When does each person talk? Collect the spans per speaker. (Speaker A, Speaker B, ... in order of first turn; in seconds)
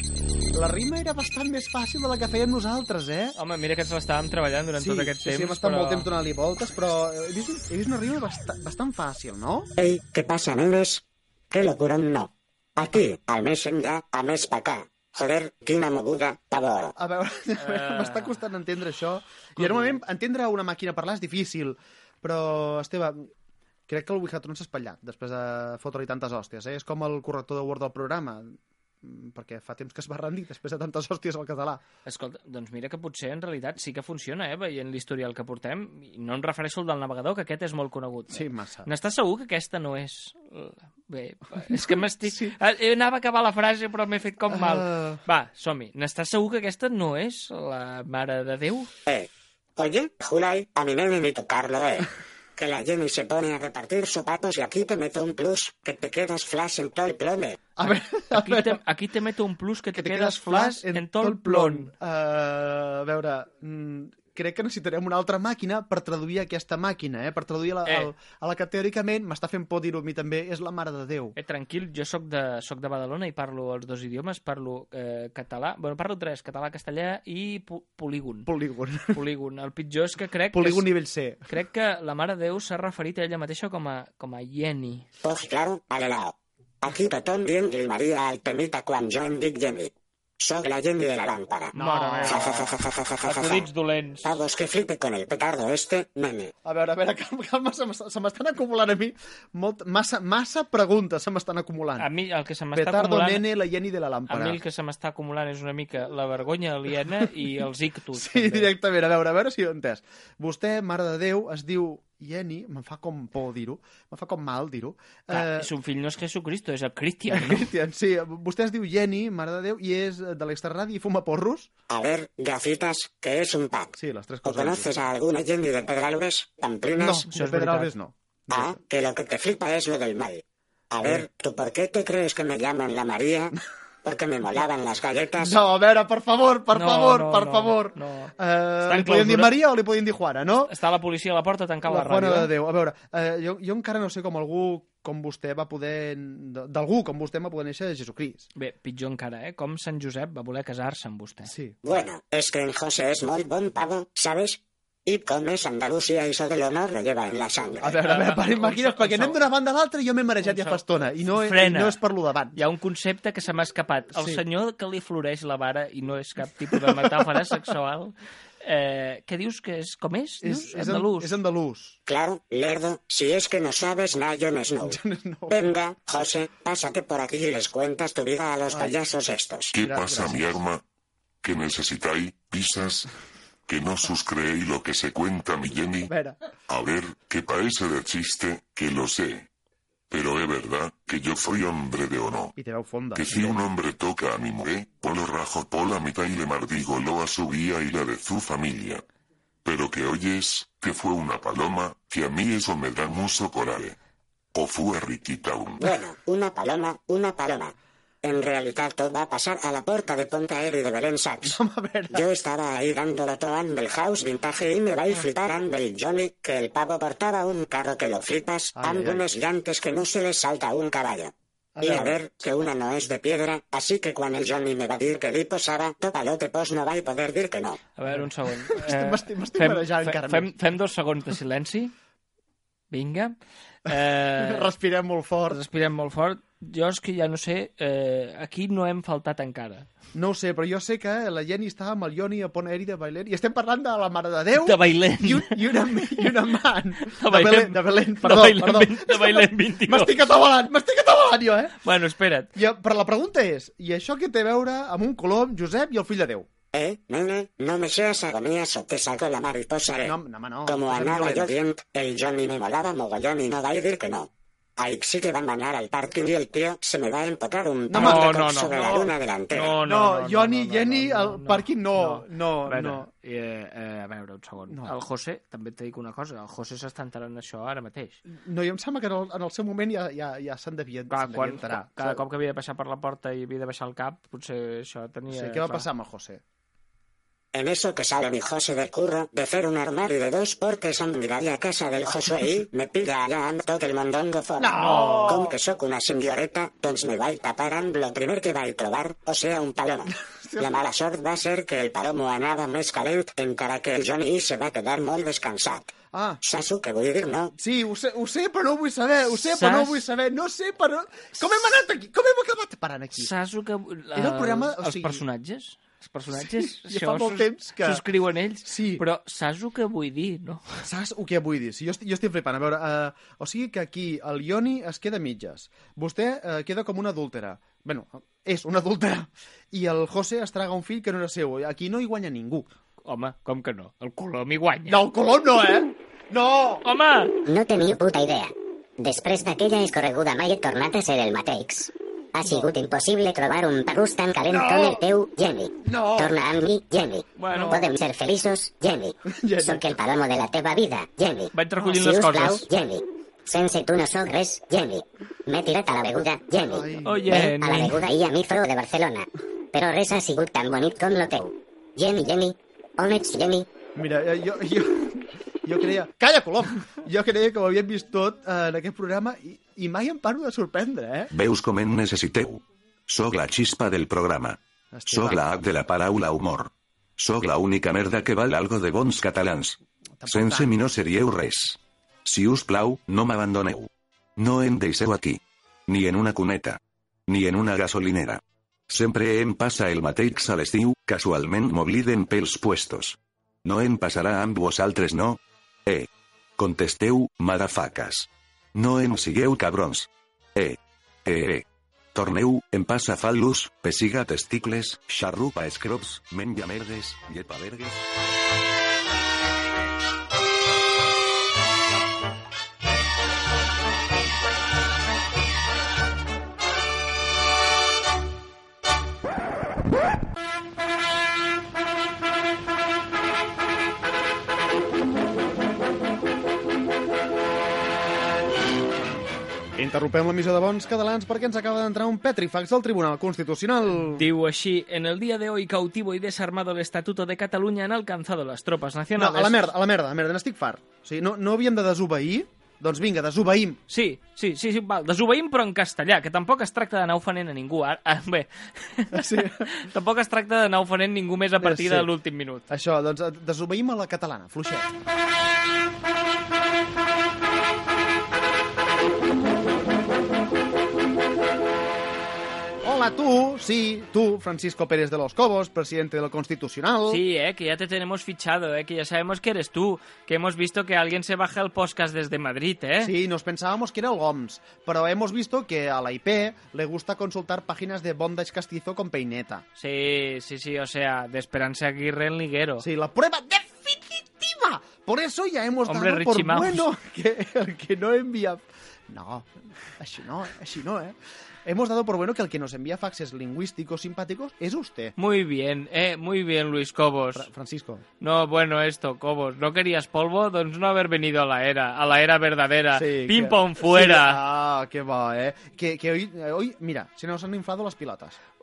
Speaker A: 0.5-3.4, 4.8-9.7, 17.0-23.3, 23.9-31.8, 38.3-38.9, 41.7-42.5, 44.5-45.2, 57.8-58.8, 59.9-71.3, 78.5-79.2, 80.5-81.5, 91.8-92.5, 96.6-102.1, 102.7-104.6, 108.1-115.7, 117.3-121.7, 124.0-125.0, 127.0-128.8, 135.4-140.7, 141.9-148.5, 151.4-151.8, 157.8-162.6, 164.2-164.4, 170.4-172.0, 174.7-175.7, 178.7-179.0, 179.8-180.6, 186.1-186.3, 192.6-193.6, 211.4-212.2, 218.8-219.4, 221.8-222.2, 228.1-230.5, 234.4-235.6, 240.1-251.8, 252.5-256.5, 260.0-261.5, 267.9-268.7, 269.8-273.1, 278.3-282.2, 285.3-286.4, 294.6-295.5, 300.3-300.8, 306.1-306.4, 307.6-313.3, 314.1-315.2, 316.3-318.0, 318.6-319.0, 320.8-332.7, 334.9-336.8, 344.5-345.0, 345.8-346.4, 347.5-347.8, 349.2-349.8, 356.6-357.5, 363.9-371.3, 374.9-375.4, 380.2-380.7, 429.8-434.3, 439.1-443.8, 449.1-449.7, 451.6-452.1, 452.7-454.9, 462.8-467.2, 473.0-479.6, 482.8-489.5, 490.0-495.1, 497.3-498.0, 502.9-508.4
Speaker B: 3.4-6.1, 17.6-18.4, 19.6-19.9, 32.0-48.9, 58.3-61.9, 67.8-68.1, 71.4-78.5, 79.1-80.9, 81.5-85.0, 91.7-92.7, 93.2-94.4, 102.0-103.5, 104.3-108.7, 115.3-117.7, 127.2-127.9, 136.7-139.6, 140.7-142.5, 148.6-151.5, 158.0-159.4, 160.4-162.0, 162.6-171.3, 227.9-231.9, 232.9-233.3, 233.8-234.7, 235.5-239.9, 244.6-250.3, 251.8-252.5, 267.9-278.2, 281.1-285.9, 294.8-295.4, 309.4-310.0, 313.2-320.6, 333.0-335.1, 336.8-337.4, 347.4-347.8, 351.5-352.6, 357.0-358.0, 433.9-439.7, 443.9-452.7, 467.1-473.1, 479.8-482.9, 485.9-486.9, 495.2-497.5, 498.2-504.4
Speaker C: 9.8-16.9, 49.0-57.6, 85.2-91.7, 92.2-93.7, 94.2-96.5, 121.9-127.2, 128.5-135.6, 151.8-158.0, 172.1-175.0, 175.5-179.8, 205.8-211.6, 212.1-227.8, 256.7-260.1, 260.7-269.7, 287.5-307.5
Speaker D: 179.7-180.8, 181.4-183.1, 183.7-186.1, 186.7-189.5, 190.1-192.5, 193.1-199.0, 199.6-203.9, 204.5-205.8
Speaker E: 337.4-363.7
Speaker F: 371.3-408.0